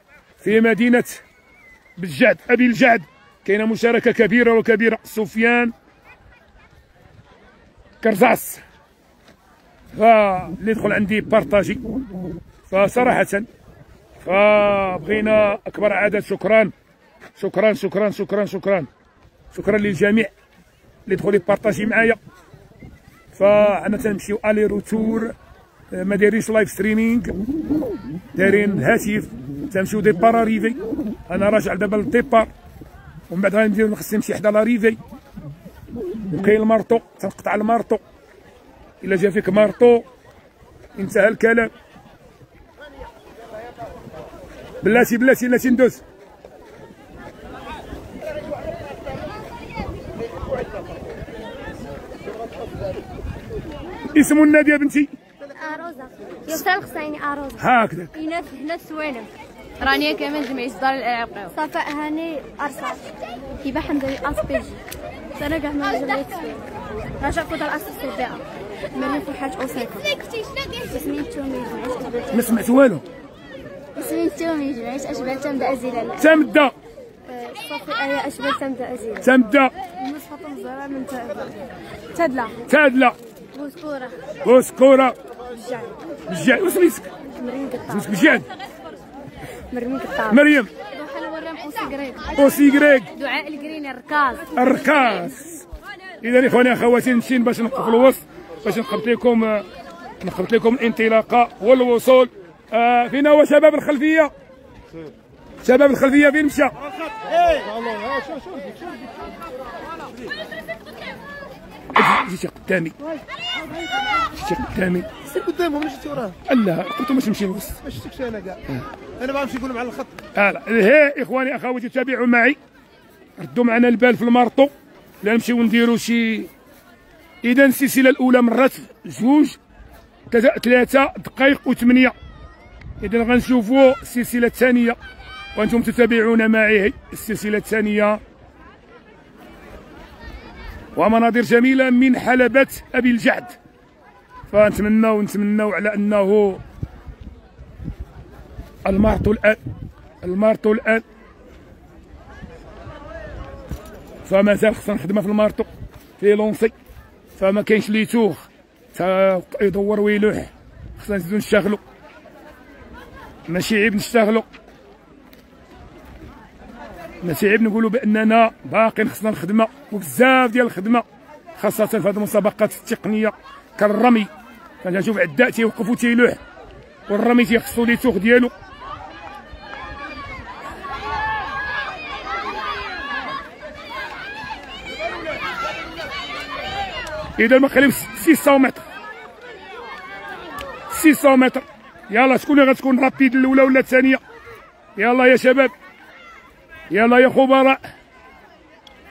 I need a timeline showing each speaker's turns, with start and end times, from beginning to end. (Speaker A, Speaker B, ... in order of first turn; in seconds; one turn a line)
Speaker A: 0.4-1.2
Speaker A: 2.0-5.7
Speaker A: 8.0-8.6
Speaker A: 9.9-11.8
Speaker A: 12.7-13.5
Speaker A: 14.2-16.7
Speaker A: 17.4-18.9
Speaker A: 19.5-20.3
Speaker A: 21.1-22.2
Speaker A: 23.3-25.3
Speaker A: 25.9-27.4
Speaker A: 28.3-32.5
Speaker A: 33.3-35.0
Speaker A: 36.3-38.0
Speaker A: 39.0-40.0
Speaker A: 40.9-41.7
Speaker A: 44.8-46.0
Speaker A: 54.1-55.1
Speaker B: 55.5-57.6
Speaker A: 57.6-58.1
Speaker B: 58.1-59.3
Speaker C: 59.8-61.5
Speaker B: 61.5-64.8
Speaker B: 65.3-66.7
Speaker B: 67.2-72.5
Speaker A: 72.3-73.0
Speaker B: 73.9-76.3
Speaker A: 76.2-76.7
Speaker B: 77.3-79.3
Speaker A: 79.2-79.7
Speaker B: 80.0-81.6
Speaker B: 82.1-82.5
Speaker A: 82.7-83.2
Speaker B: 83.5-84.2
Speaker A: 84.4-85.2
Speaker B: 85.5-85.9
Speaker A: 86.3-87.1
Speaker B: 87.3-88.2
Speaker A: 87.9-88.5
Speaker B: 89.7-90.4
Speaker A: 90.3-90.7
Speaker B: 91.0-92.5
Speaker C: 91.1-91.5
Speaker A: 92.3-93.1
Speaker C: 93.2-94.4
Speaker B: 93.3-94.2
Speaker A: 94.5-95.6
Speaker A: 96.2-99.7
Speaker A: 100.2-104.3
Speaker A: 105.6-106.7
Speaker D: 107.3-109.3
Speaker A: 111.9-112.9
Speaker A: 114.4-115.1
Speaker D: 115.2-116.3
Speaker A: 116.5-117.8
Speaker D: 117.8-118.6
Speaker D: 119.2-120.2
Speaker A: 120.3-122.6
Speaker A: 123.4-124.7
Speaker A: 125.2-126.5
Speaker A: 127.4-129.6
Speaker A: 130.3-132.1
Speaker A: 133.0-135.0
Speaker A: 135.6-138.2
Speaker A: 140.9-143.6
Speaker A: 144.5-146.6
Speaker A: 148.8-149.6
Speaker A: 150.2-151.0
Speaker A: 154.2-155.7
Speaker A: 156.2-156.7
Speaker A: 157.4-161.8
Speaker A: 163.5-164.4
Speaker A: 167.2-171.0
Speaker A: 171.6-174.3
Speaker A: 174.8-176.4
Speaker A: 177.1-178.5
Speaker A: 187.4-188.8
Speaker A: 190.9-194.2
Speaker A: 194.9-195.7
Speaker A: 196.9-197.8